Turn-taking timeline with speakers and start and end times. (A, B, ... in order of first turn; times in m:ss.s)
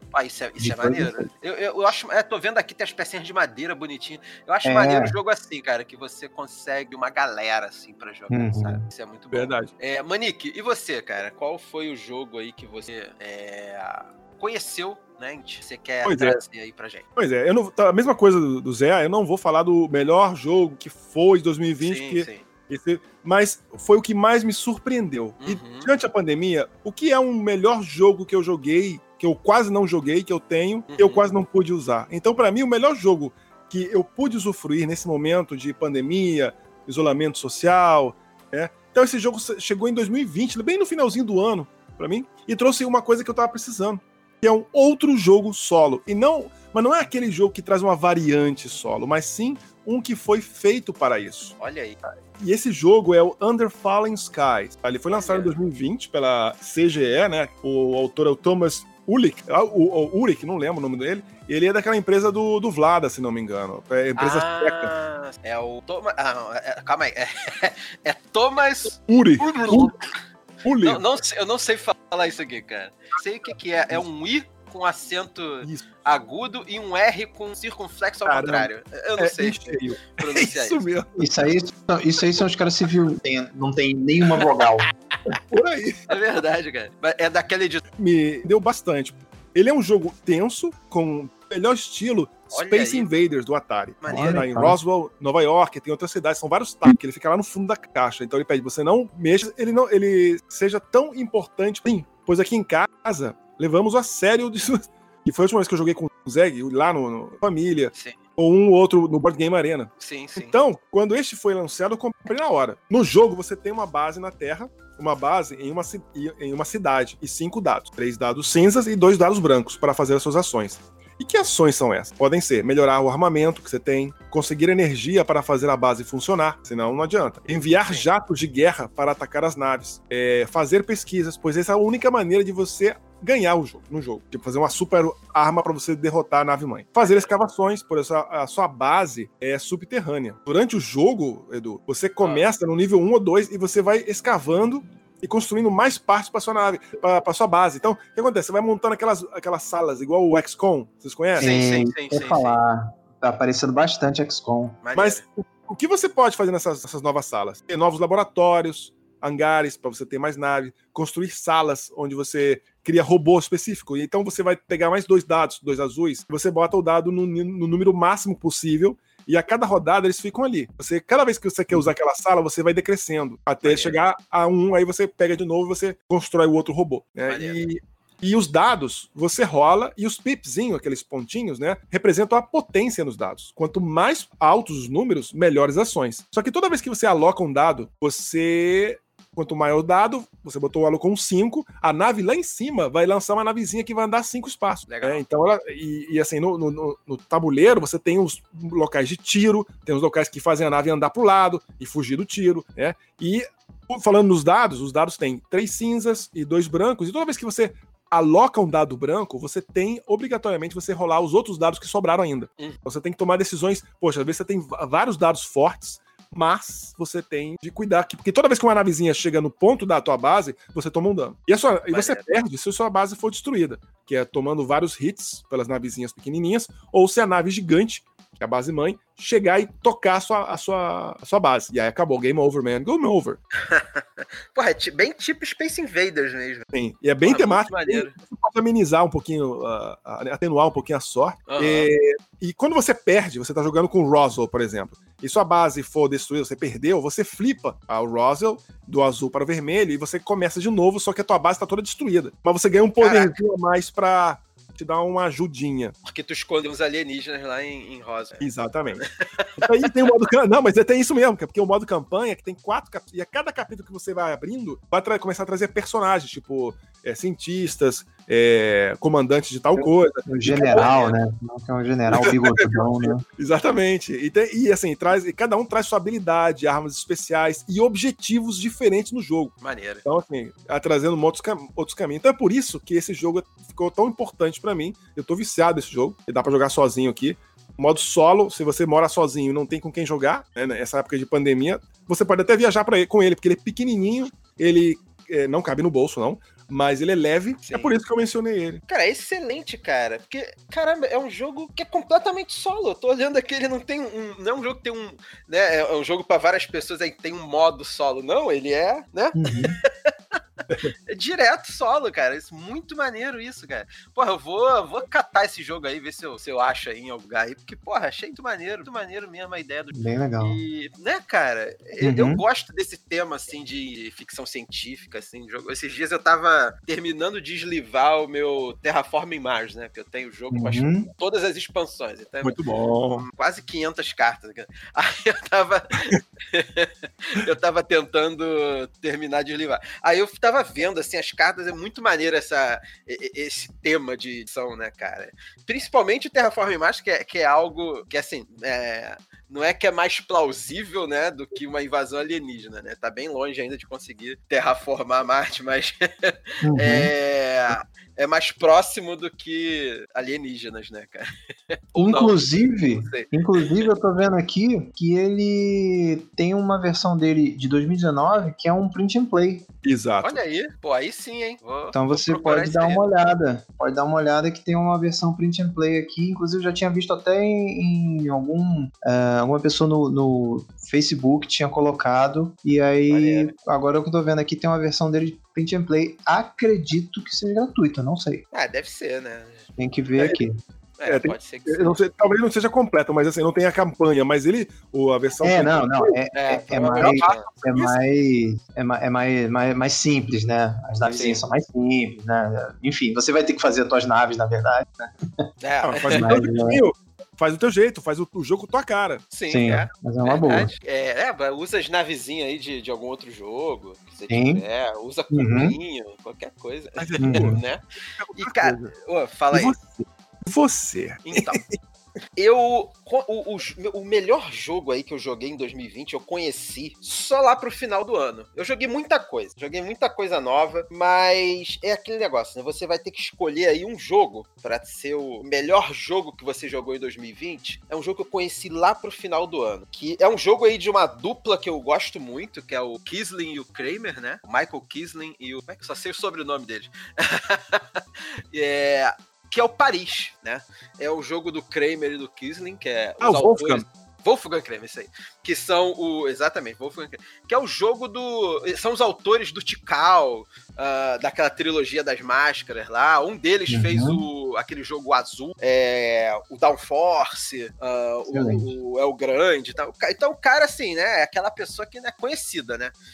0:00.1-0:17.0 A
0:00.6-0:01.3 B
0:04.6-0:05.2 B
0:08.3-0:08.8 B
0:09.3-0:09.7 C
0:16.0-0:16.4 C
0:17.2-0:51.5 C
0:21.8-0:22.4 A
0:25.4-0:25.9 A
0:30.9-0:31.2 A
0:51.6-0:52.0 A
0:52.4-1:04.9 C
0:55.1-0:55.5 A
1:04.2-1:10.2 A
1:09.1-1:09.9 C
1:10.6-1:11.0 C
1:10.8-1:20.8 A
1:18.2-1:21.2 C
1:21.2-1:24.8 B
1:25.3-1:26.0 C
1:26.1-1:27.8 A
1:28.0-2:31.5 C
1:32.5-1:33.1 A
1:34.0-1:34.4 A
1:34.0-1:34.8 B
1:50.0-1:50.5 A
2:17.0-2:17.3 A
2:22.2-2:22.5 A
2:31.4-2:34.8 B
2:31.4-2:32.6 A
2:34.8-2:35.2 A
2:35.0-3:53.4 C
2:53.6-2:54.0 A
2:57.3-2:57.6 A
3:14.9-3:15.2 A
3:41.9-3:42.3 A
3:53.6-3:56.6 A
3:56.7-4:15.9 C
3:57.2-3:58.1 A
4:01.5-4:01.9 A
4:13.0-4:13.4 A
4:16.0-4:20.0 A
4:18.4-4:19.0 C
4:19.6-4:30.9 C
4:29.8-4:33.2 B
4:30.5-4:31.2 A
4:32.1-4:58.8 C
4:39.6-4:40.0 A
4:57.6-4:57.9 A
4:58.9-5:10.1 A
5:09.3-5:09.8 B
5:11.1-5:32.6 A
5:19.9-5:20.6 B
5:22.0-5:22.4 B
5:30.5-5:31.1 B
5:32.4-5:33.2 C
5:33.1-6:03.8 A
5:56.6-5:57.1 B
6:02.0-6:09.7 B
6:09.8-6:10.4 C
6:10.2-6:13.0 A
6:11.9-6:28.4 B
6:23.1-6:23.5 A
6:28.5-6:29.7 A
6:29.8-6:30.6 B
6:31.0-6:32.0 A
6:31.1-6:36.1 C
6:35.4-6:45.4 B
6:36.3-6:37.4 A
6:37.0-6:38.0 C
6:41.0-6:41.4 A
6:45.6-6:46.3 A
6:45.8-6:49.2 C
6:46.1-6:46.8 B
6:49.3-6:57.8 A
6:49.5-6:50.7 B
6:54.3-6:54.6 B
6:55.3-6:55.7 B
6:57.0-6:57.6 C
6:57.2-6:57.6 B
6:58.2-6:58.9 C
6:58.4-6:59.7 A
6:59.5-7:01.8 C
7:01.2-7:01.6 A
7:02.4-7:28.0 A
7:28.5-7:52.9 A
7:33.2-7:33.8 C
7:43.7-7:44.2 B
7:48.3-7:48.7 B